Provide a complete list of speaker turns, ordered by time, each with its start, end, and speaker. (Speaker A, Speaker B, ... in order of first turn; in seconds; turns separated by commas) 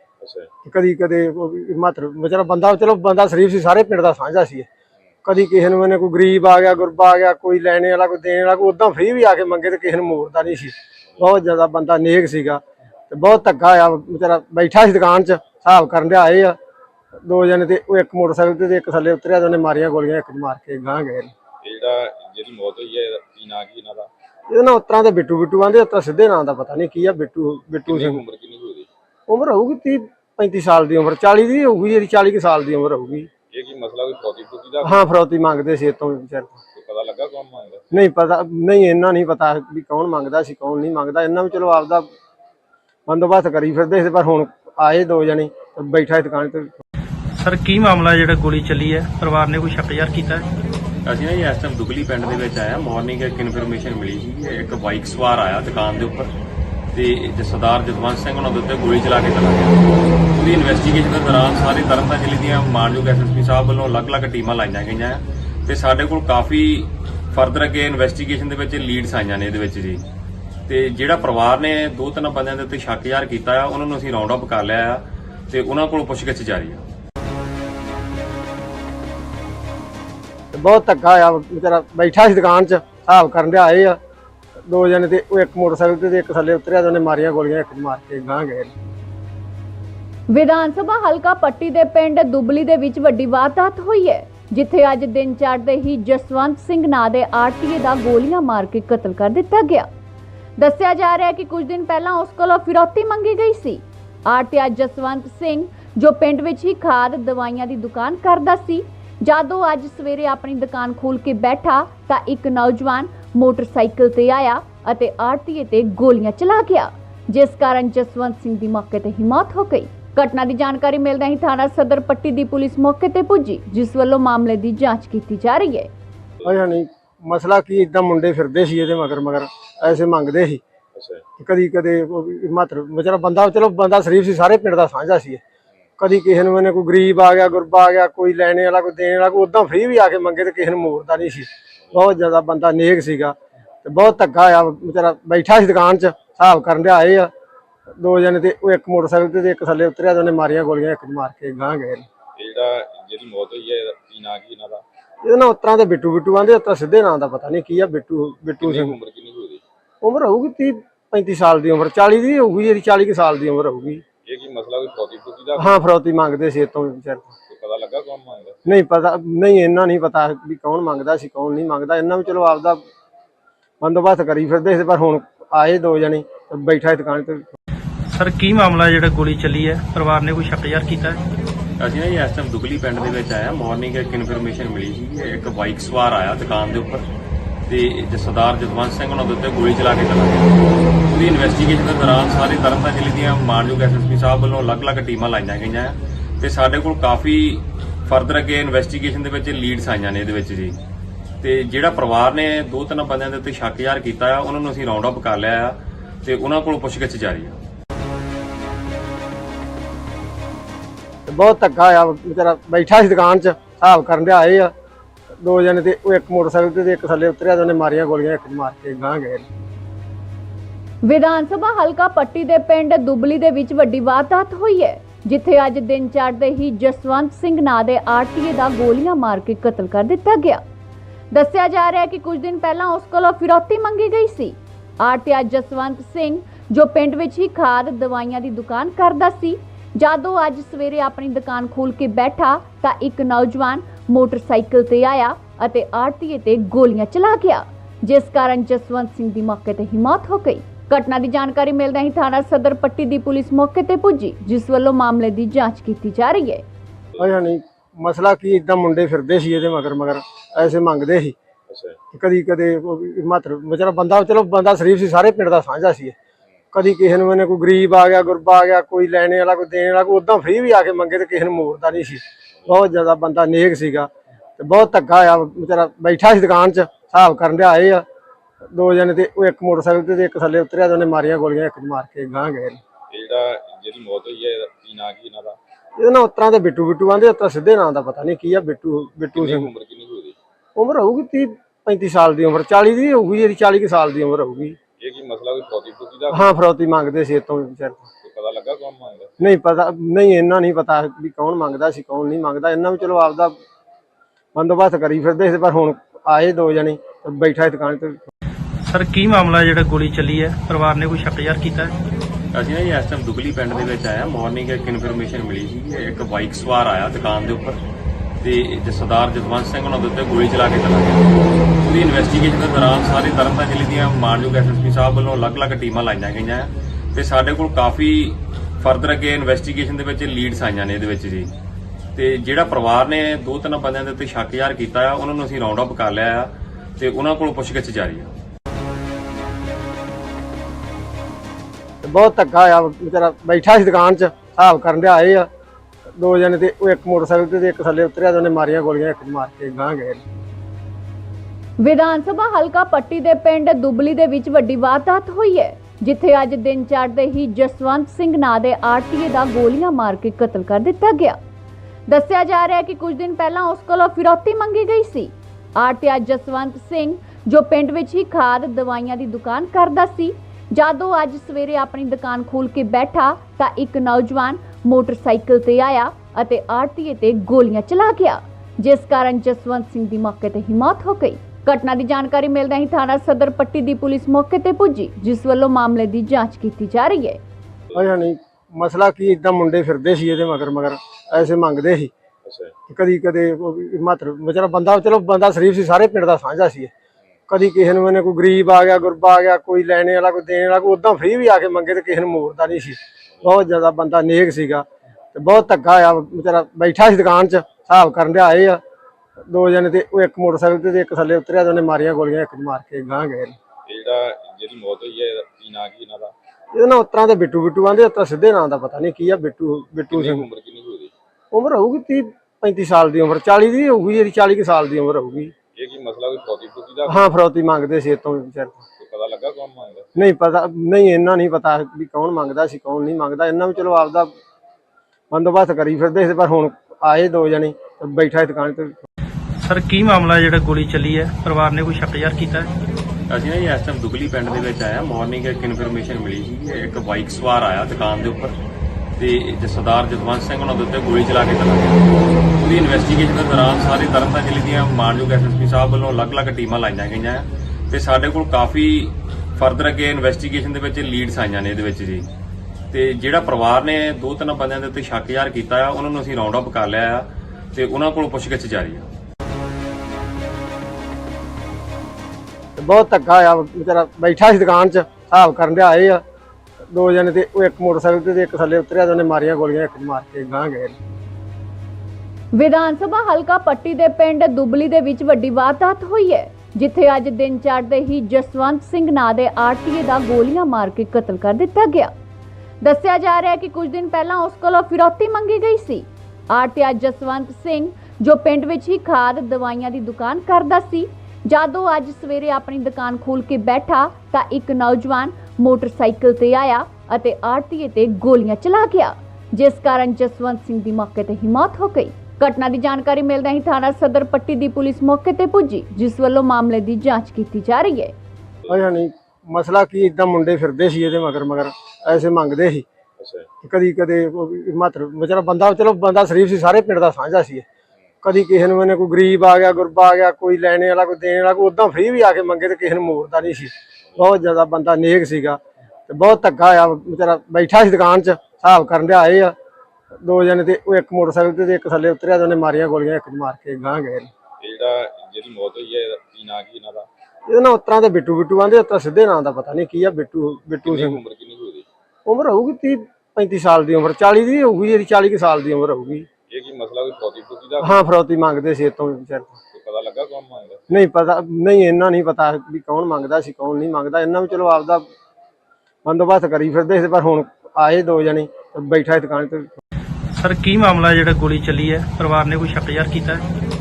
Speaker A: 0.2-0.5, Speaker B: 0.6-4.7, Speaker B: 5.2-16.6, Speaker B: 17.2-21.3, Speaker A: 21.6-24.1, Speaker B: 24.5-28.2, Speaker A: 27.9-28.9, Speaker B: 29.3-33.3, Speaker A: 33.5-35.0, Speaker B: 34.8-36.5, Speaker A: 36.7-37.9, Speaker B: 37.9-42.1, Speaker B: 43.1-46.8, Speaker C: 47.4-50.5, Speaker D: 51.0-56.3, Speaker D: 56.9-59.8, Speaker D: 60.4-70.0, Speaker D: 70.7-76.8, Speaker B: 80.5-84.0, Speaker B: 84.7-88.7, Speaker E: 90.3-99.9, Speaker E: 100.6-125.9, Speaker B: 126.4-130.6, Speaker A: 130.9-131.2, Speaker B: 131.4-135.4, Speaker B: 136.0-147.3, Speaker B: 148.0-152.0, Speaker A: 152.4-154.8, Speaker B: 155.2-158.9, Speaker A: 158.6-159.6, Speaker B: 160.0-164.0, Speaker A: 164.2-165.8, Speaker B: 165.6-167.3, Speaker A: 167.5-168.7, Speaker B: 168.7-172.8, Speaker B: 173.8-177.5, Speaker C: 178.1-181.2, Speaker D: 181.8-187.1, Speaker D: 187.7-190.5, Speaker D: 191.1-200.8, Speaker D: 201.4-207.5, Speaker B: 211.3-214.7, Speaker B: 215.4-219.4, Speaker E: 221.0-230.6, Speaker E: 231.3-256.6, Speaker B: 257.2-261.3, Speaker A: 261.7-262.0, Speaker B: 262.1-266.1, Speaker B: 266.7-278.0, Speaker B: 278.7-282.8, Speaker A: 283.1-285.6, Speaker B: 286.0-289.7, Speaker A: 289.3-290.4, Speaker B: 290.8-294.8, Speaker A: 295.0-296.5, Speaker B: 296.3-298.0, Speaker A: 298.2-299.3, Speaker B: 299.4-303.6, Speaker B: 304.6-308.3, Speaker C: 308.9-311.9, Speaker D: 312.5-317.8, Speaker D: 318.4-321.3, Speaker D: 321.9-331.5, Speaker D: 332.1-338.3, Speaker B: 342.0-345.5, Speaker B: 346.2-350.2, Speaker E: 351.8-361.4, Speaker E: 362.1-387.4, Speaker B: 387.9-392.1, Speaker A: 392.4-392.7, Speaker B: 392.9-396.9, Speaker B: 397.5-408.8, Speaker B: 409.5-413.5, Speaker A: 413.9-416.3, Speaker B: 416.7-420.4, Speaker A: 420.1-421.1, Speaker B: 421.5-425.5, Speaker A: 425.8-427.3, Speaker B: 427.1-428.8, Speaker A: 429.0-430.1, Speaker B: 430.1-434.3, Speaker B: 435.3-439.0, Speaker C: 439.6-442.7, Speaker D: 443.3-448.6, Speaker D: 449.2-452.1, Speaker D: 452.6-462.3, Speaker D: 462.9-469.0, Speaker B: 472.8-476.2, Speaker B: 476.9-480.9, Speaker E: 482.5-492.1, Speaker E: 492.8-518.1, Speaker B: 518.7-522.9, Speaker A: 523.2-523.5, Speaker B: 523.6-527.6, Speaker B: 528.2-539.5, Speaker B: 540.2-544.3, Speaker A: 544.6-547.1, Speaker B: 547.5-551.2, Speaker A: 550.8-551.9, Speaker B: 552.3-556.3, Speaker A: 556.5-558.0, Speaker B: 557.8-559.5, Speaker A: 559.7-560.8, Speaker B: 560.9-565.0, Speaker B: 566.0-569.8, Speaker C: 570.4-573.4